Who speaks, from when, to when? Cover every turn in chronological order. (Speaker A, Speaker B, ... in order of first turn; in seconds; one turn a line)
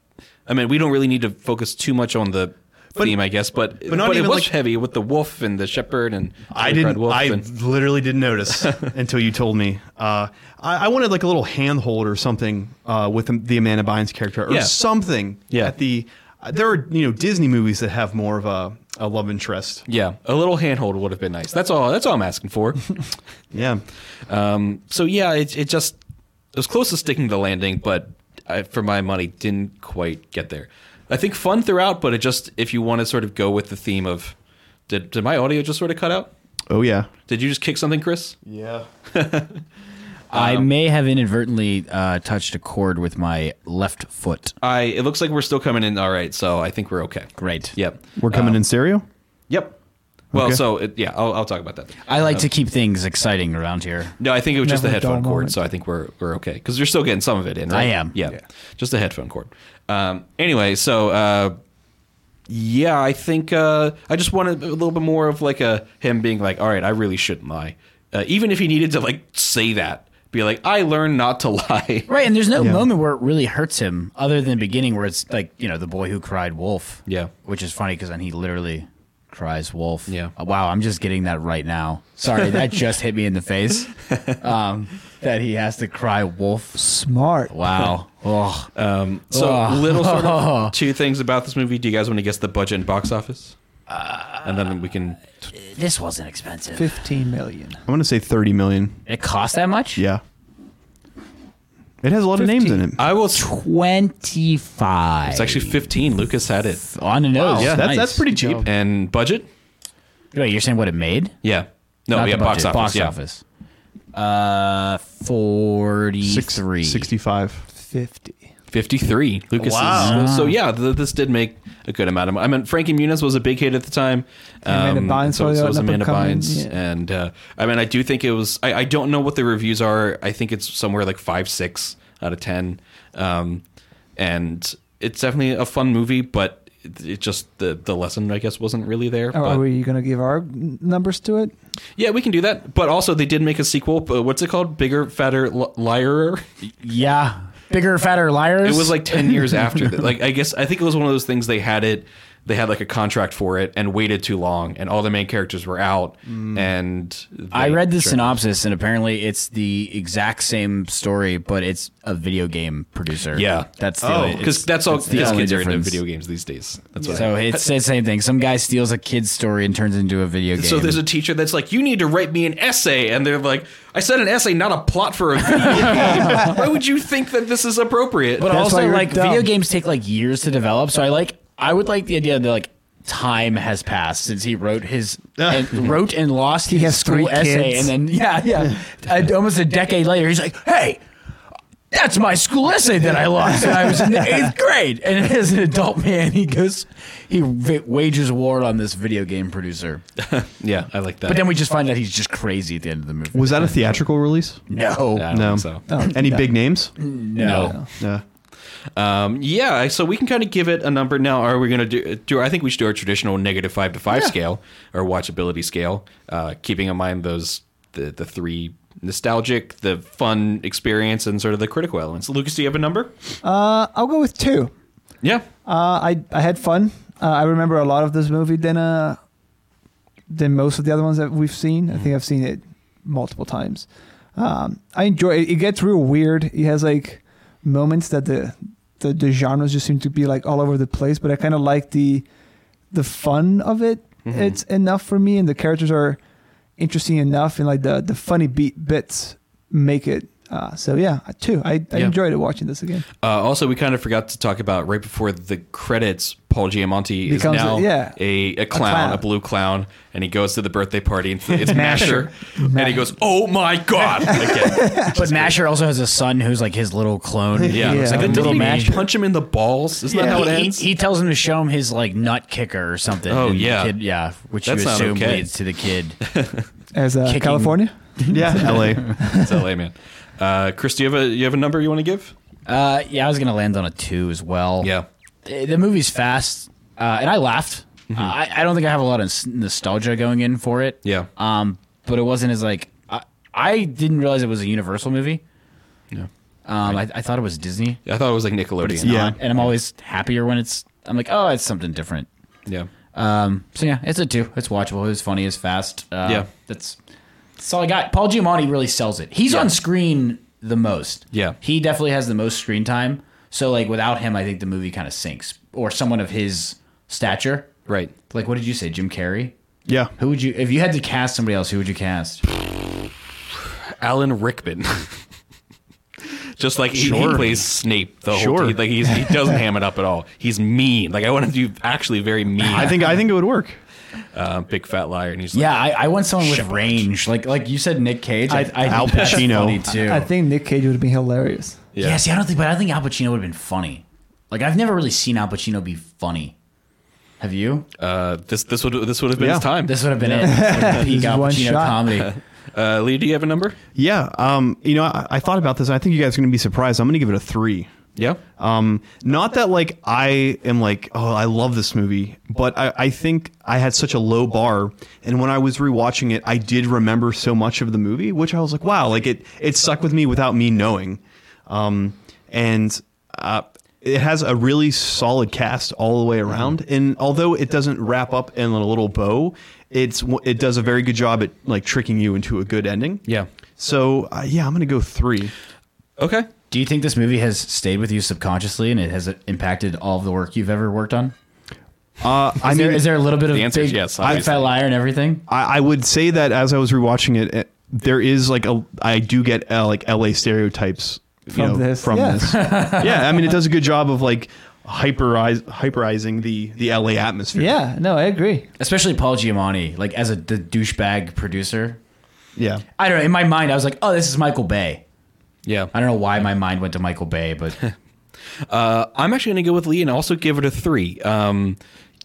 Speaker A: 0.5-7.5
Speaker B: 3.8-4.5
Speaker B: 6.5-19.9
Speaker A: 14.5-14.8
Speaker A: 19.9-23.0
Speaker B: 23.5-23.8
Speaker A: 24.3-26.0
Speaker A: 26.5-34.3
Speaker A: 34.9-36.3
Speaker B: 36.7-37.1
Speaker A: 37.3-38.4
Speaker B: 38.4-38.9
Speaker A: 39.1-39.6
Speaker C: 40.3-44.5
Speaker A: 40.3-40.7
Speaker A: 44.6-48.6
Speaker C: 47.4-47.7
Speaker B: 48.2-49.0
Speaker A: 49.5-49.8
Speaker A: 50.3-52.4
Speaker B: 50.3-50.6
Speaker C: 52.0-54.1
Speaker A: 54.2-61.5
Speaker D: 54.6-55.6
Speaker C: 57.7-58.1
Speaker A: 62.5-72.1
Speaker C: 72.1-86.8
Speaker B: 72.6-72.9
Speaker A: 77.0-77.3
Speaker D: 86.7-87.5
Speaker C: 87.5-88.7
Speaker A: 88.7-93.5
Speaker C: 89.3-90.7
Speaker C: 93.9-94.6
Speaker A: 94.4-95.2
Speaker C: 95.5-97.0
Speaker D: 96.8-97.8
Speaker B: 97.9-99.0
Speaker C: 99.1-100.0
Speaker B: 100.0-100.2
Speaker B: 102.0-103.0
Speaker D: 102.3-102.8
Speaker A: 103.0-103.5
Speaker C: 103.3-105.8
Speaker A: 105.3-106.8
Speaker C: 106.8-108.6
Speaker B: 107.4-108.7
Speaker A: 107.5-107.8
Speaker A: 108.6-109.5
Speaker C: 110.3-111.4
Speaker A: 111.4-113.1
Speaker C: 112.1-113.4
Speaker C: 114.1-117.1
Speaker B: 116.2-117.7
Speaker D: 117.7-118.4
Speaker A: 118.7-133.6
Speaker B: 119.6-120.2
Speaker C: 119.9-120.6
Speaker D: 124.6-126.7
Speaker A: 134.2-139.6
Speaker D: 139.3-141.5
Speaker A: 142.0-146.4
Speaker C: 146.8-149.3
Speaker A: 148.6-158.4
Speaker B: 156.3-156.6
Speaker C: 157.5-166.0
Speaker A: 163.3-167.6
Speaker B: 164.0-165.4
Speaker B: 167.0-167.3
Speaker C: 167.1-171.0
Speaker A: 170.6-178.6
Speaker C: 175.6-176.5
Speaker C: 178.4-191.0
Speaker D: 178.4-179.5
Speaker B: 185.4-185.9
Speaker D: 186.7-187.9
Speaker C: 191.9-200.0
Speaker A: 200.2-201.5
Speaker C: 201.3-203.7
Speaker B: 203.3-204.6
Speaker C: 204.7-205.5
Speaker A: 205.1-205.8
Speaker B: 205.3-208.2
Speaker D: 205.9-206.5
Speaker C: 207.0-207.7
Speaker A: 207.4-207.7
Speaker A: 208.9-223.1
Speaker D: 223.4-224.7
Speaker A: 225.2-225.5
Speaker D: 225.6-229.2
Speaker D: 230.3-242.2
Speaker D: 242.9-246.2
Speaker A: 244.2-244.6
Speaker D: 246.8-253.1
Speaker A: 253.2-265.6
Speaker D: 257.3-258.2
Speaker D: 258.7-259.2
Speaker D: 261.6-263.1
Speaker D: 264.0-265.1
Speaker C: 265.1-268.9
Speaker B: 267.5-269.0
Speaker A: 267.7-270.8
Speaker D: 267.8-269.0
Speaker C: 270.1-276.2
Speaker A: 273.3-273.9
Speaker A: 274.6-275.5
Speaker A: 276.2-276.6
Speaker D: 276.9-278.0
Speaker C: 277.2-277.8
Speaker B: 278.3-279.2
Speaker A: 279.3-282.3
Speaker C: 282.7-284.9
Speaker A: 284.8-285.1
Speaker C: 285.4-295.4
Speaker A: 291.0-291.3
Speaker C: 296.6-298.0
Speaker A: 298.1-299.7
Speaker C: 298.8-302.3
Speaker B: 299.0-299.4
Speaker C: 303.1-307.0
Speaker C: 307.6-317.7
Speaker A: 311.3-311.6
Speaker A: 317.9-318.1
Speaker C: 318.3-319.5
Speaker B: 319.9-320.1
Speaker C: 320.2-322.4
Speaker A: 324.0-325.2
Speaker A: 326.6-333.1
Speaker B: 326.9-327.6
Speaker C: 326.9-327.6
Speaker B: 328.3-328.8
Speaker B: 332.6-333.8
Speaker A: 334.3-335.8
Speaker C: 335.5-340.3
Speaker A: 336.4-337.0
Speaker D: 338.5-341.8
Speaker B: 338.8-339.9
Speaker A: 341.9-342.2
Speaker C: 342.0-346.5
Speaker C: 347.4-347.9
Speaker A: 348.0-351.1
Speaker B: 349.4-350.4
Speaker C: 349.8-352.3
Speaker D: 350.4-352.1
Speaker A: 352.1-353.8
Speaker B: 353.9-357.9
Speaker B: 358.6-383.2
Speaker B: 383.8-385.5
Speaker A: 386.2-386.5
Speaker C: 386.7-391.3
Speaker B: 392.2-393.2
Speaker C: 392.6-395.4
Speaker A: 393.5-394.7
Speaker B: 395.5-407.8
Speaker D: 401.5-402.8
Speaker C: 402.5-403.2
Speaker D: 407.6-408.7
Speaker C: 408.8-412.0
Speaker B: 412.6-412.8
Speaker C: 413.0-415.0
Speaker A: 415.6-415.9
Speaker C: 415.9-417.8
Speaker A: 418.7-421.8